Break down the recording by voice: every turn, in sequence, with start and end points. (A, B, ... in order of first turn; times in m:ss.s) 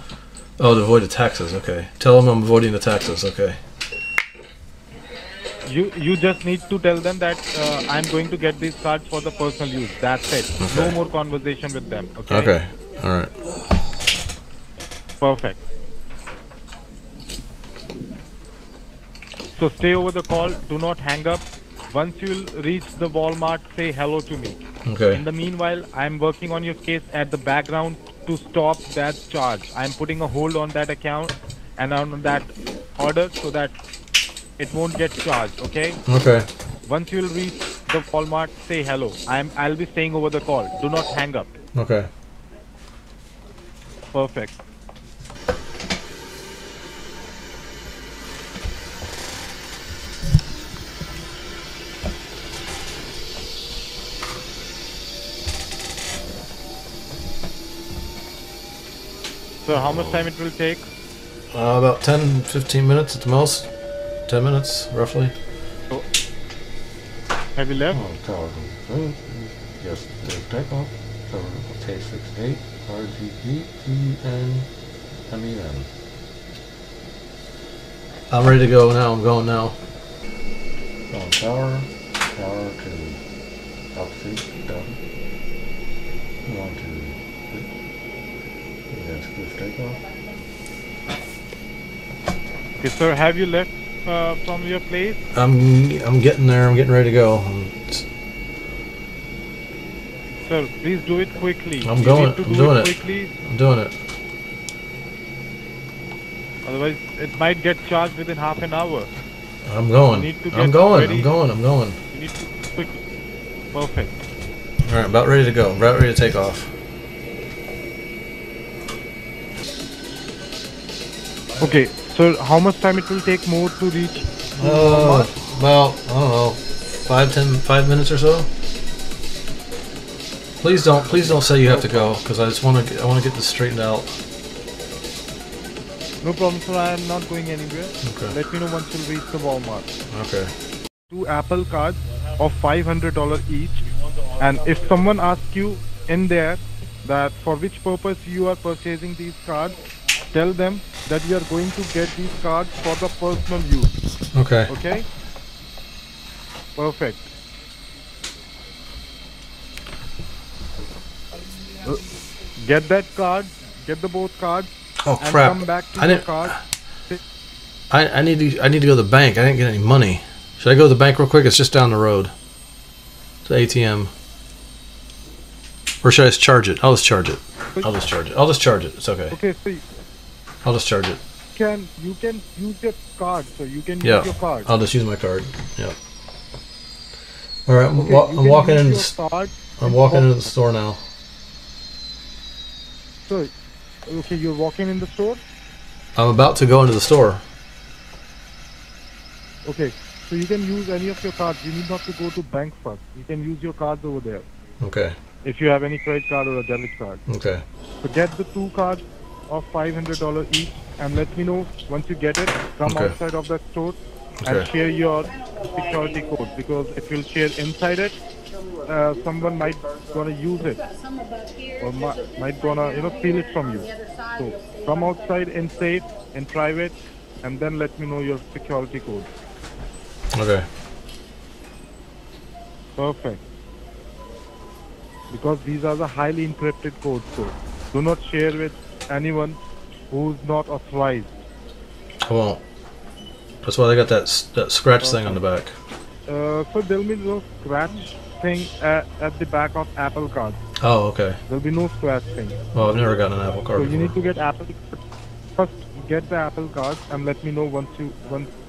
0:00.6-0:03.6 A
0:05.6-0:12.5 B
0:10.6-0:10.9 A
0:12.3-0:13.3 A
0:15.2-0:15.6 B
0:19.6-0:24.6 B
0:24.8-0:25.2 A
0:25.1-0:33.7 B
0:34.6-0:36.0 B
0:36.0-0:36.5 A
0:36.8-0:41.5 B
0:41.7-0:42.1 A
0:44.1-0:44.6 B
0:59.6-1:00.8 B
1:01.5-1:03.7 A
1:04.3-1:05.3 A
1:07.6-1:08.0 B
1:07.9-1:14.7 C
1:15.2-1:15.9 C
1:18.3-1:19.8 A
1:21.1-1:23.2 C
1:23.9-1:25.0 C
1:26.4-1:27.7 C
1:28.9-1:30.0 C
1:32.8-1:35.2 B
1:35.3-1:38.0 A
1:40.4-1:43.3 B
1:41.8-1:43.9 A
1:46.6-1:49.1 B
1:49.6-1:52.0 A
1:50.1-1:51.3 B
1:52.1-1:53.0 B
1:53.7-1:54.2 B
1:54.8-1:56.7 A
2:01.6-2:05.3 B
2:04.6-2:08.5 A
2:10.6-2:14.1 A
2:11.5-2:12.1 B
2:16.2-2:19.9 B
2:18.0-2:18.3 A
2:20.1-2:20.5 A
2:21.1-2:23.8 B
2:24.4-2:29.8 B
2:30.3-2:33.9 B
2:34.3-2:34.7 A
2:34.7-2:35.0 B
2:36.8-2:37.3 B
2:42.6-2:46.6 B
2:45.0-2:46.5 A
2:47.9-2:52.3 A
2:53.4-2:54.1 A
2:56.0-2:59.4 A
2:59.3-2:59.8 B
3:00.6-3:01.2 A
3:01.5-3:04.7 B
3:04.0-3:06.0 A
3:07.6-3:09.1 A
3:08.0-3:10.3 B
3:09.8-3:11.0 A
3:13.2-3:13.5 B
3:14.1-3:15.4 B
3:16.2-3:17.4 A
3:19.6-3:24.4 B
3:24.8-3:25.2 A
3:25.4-3:27.2 B
3:27.3-3:27.6 A
3:28.0-3:38.2 B
3:32.8-3:33.1 A
3:34.4-3:34.7 A
3:38.8-3:40.8 B
3:41.8-3:49.3 B
3:50.3-3:50.6 A
3:53.0-3:53.4 B
3:55.3-3:59.6 B
4:00.1-4:01.4 B
4:02.2-4:02.6 A
4:03.6-4:05.7 A
4:05.0-4:05.4 B
4:06.3-4:10.6 B
4:10.8-4:11.4 A
4:11.5-4:12.6 B
4:12.7-4:14.1 A
4:13.7-4:15.0 B
4:15.6-4:18.5 B